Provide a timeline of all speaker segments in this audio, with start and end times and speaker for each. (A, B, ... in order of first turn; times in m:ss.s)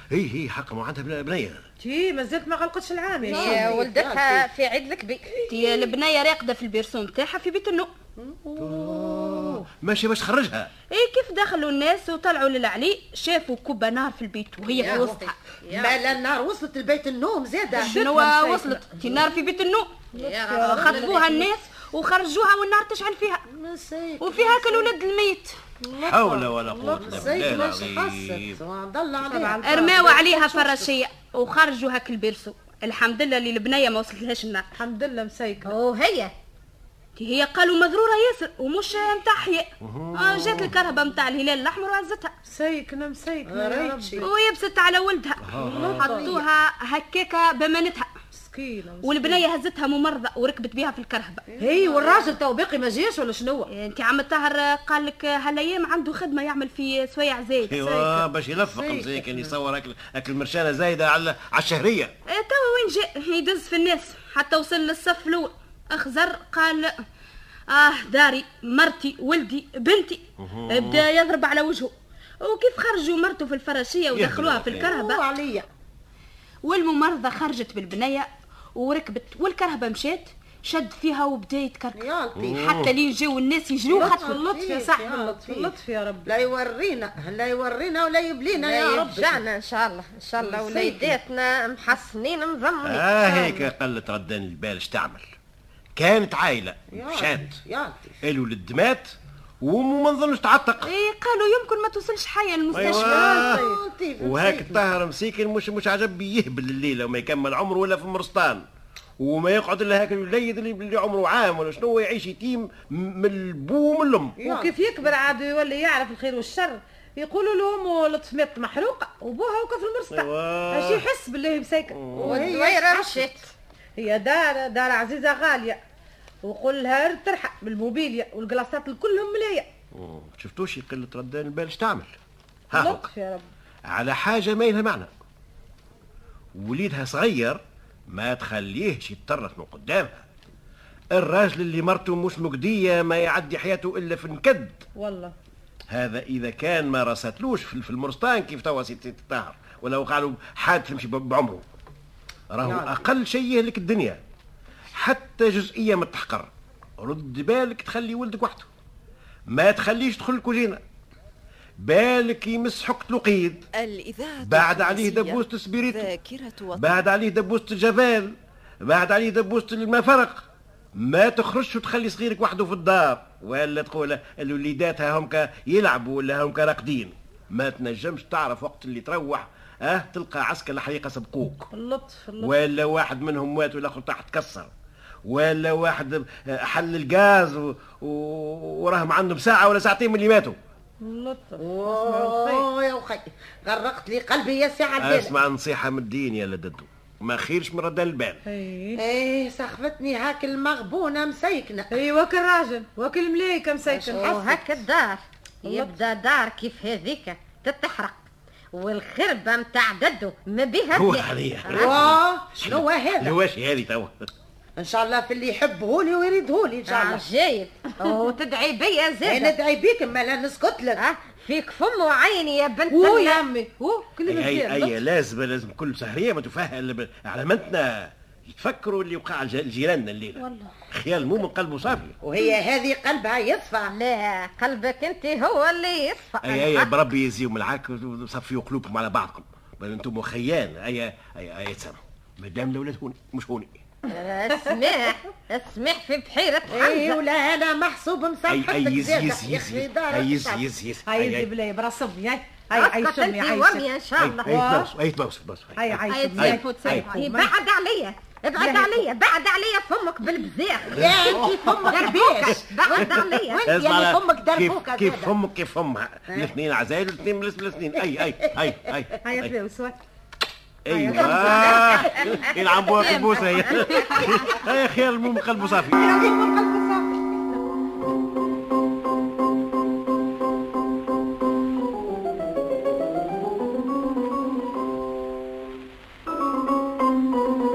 0:00.1-0:01.6 A
0:01.8-0:03.8 B
0:03.2-0:04.5 C
0:03.3-0:05.5 D
0:05.5-0:07.9 E
0:08.2-0:09.6 C
0:08.6-0:10.7 A
0:10.9-0:15.3 E
0:14.8-0:16.0 D
0:14.8-0:17.9 C
0:17.8-0:19.2 B
0:17.8-0:20.0 E
0:20.1-0:20.8 B
0:20.1-0:21.5 D
0:20.6-0:23.4 E
0:20.7-0:21.1 C
0:23.5-0:24.9 C
0:24.2-0:25.6 E
0:25.8-0:27.1 B
0:26.0-0:28.6 A
0:26.8-0:29.6 C
0:29.2-0:30.8 B
0:29.6-0:34.7 E
0:34.8-0:35.7 B
0:35.6-0:36.3 D
0:37.2-0:42.3 E
0:39.8-0:40.7 A
0:42.4-0:44.2 B
0:43.5-0:44.3 C
0:44.2-0:48.1 E
0:45.4-0:46.3 A
0:45.6-0:46.4 B
0:48.3-0:49.4 B
0:49.0-0:51.4 E
0:51.5-0:52.3 C
0:51.6-0:53.7 B
0:53.7-0:57.8 E
0:57.6-1:02.1 A
0:57.8-0:58.2 B
0:58.7-0:59.5 C
1:02.3-1:06.9 E
1:07.7-1:15.2 E
1:10.4-1:11.0 A
1:14.1-1:14.9 A
1:14.7-1:15.6 C
1:16.6-1:22.0 E
1:21.9-1:22.6 C
1:22.4-1:22.9 A
1:22.5-1:24.3 E
1:23.9-1:26.2 B
1:23.9-1:25.7 C
1:26.2-1:29.4 C
1:28.6-1:33.7 D
1:30.4-1:31.2 C
1:32.8-1:35.2 A
1:36.0-1:37.5 A
1:36.9-1:38.1 C
1:38.2-1:40.9 A
1:40.8-1:43.5 E
1:42.7-1:43.7 A
1:42.7-1:44.8 C
1:44.2-1:48.6 A
1:49.2-1:54.4 A
1:54.4-1:54.7 C
1:54.4-2:03.0 B
2:00.1-2:01.0 A
2:01.9-2:02.4 A
2:02.1-2:03.0 C
2:02.4-2:03.5 D
2:04.0-2:05.8 B
2:06.4-2:09.7 B
2:09.9-2:12.2 A
2:12.7-2:13.1 A
2:12.7-2:13.4 B
2:13.9-2:15.1 A
2:16.6-2:20.2 A
2:21.1-2:24.8 A
2:25.0-2:25.3 B
2:25.9-2:31.6 A
2:32.5-2:34.2 A
2:32.6-2:33.1 C
2:35.0-2:38.7 A
2:39.5-2:40.8 A
2:41.8-2:43.6 A
2:43.7-2:47.1 F
2:44.4-2:46.1 A
2:46.7-2:50.4 A
2:51.0-3:01.7 A
3:01.7-3:02.5 B
3:02.4-3:04.7 A
3:05.2-3:10.6 A
3:11.0-3:12.6 B
3:11.6-3:15.3 C
3:15.0-3:18.4 A
3:18.4-3:19.0 B
3:19.0-3:22.0 C
3:21.9-3:24.3 B
3:23.9-3:24.8 C
3:24.1-3:28.2 D
3:25.6-3:26.0 B
3:28.7-3:32.1 D
3:30.9-3:34.3 A
3:31.7-3:33.3 C
3:34.8-3:37.2 C
3:36.9-3:39.6 D
3:39.2-3:41.0 C
3:41.0-3:43.4 D
3:42.9-3:44.9 B
3:44.2-3:52.1 A
3:52.2-3:53.9 C
3:53.9-3:56.9 D
3:56.4-4:03.8 A
4:04.1-4:07.0 D
4:04.5-4:05.0 B
4:06.7-4:10.6 C
4:08.5-4:11.5 A
4:11.0-4:13.8 B
4:12.7-4:14.5 D
4:14.2-4:17.1 A
4:14.4-4:14.9 B
4:15.8-4:17.5 B
4:16.1-4:23.6 D
4:16.6-4:17.2 E
4:18.6-4:19.0 B
4:20.9-4:29.5 A
4:20.9-4:25.3 C
4:29.2-4:30.0 B
4:30.8-4:36.2 A
4:30.9-4:32.3 B
4:31.2-4:32.2 D
4:32.8-4:34.6 D
4:36.0-4:36.9 B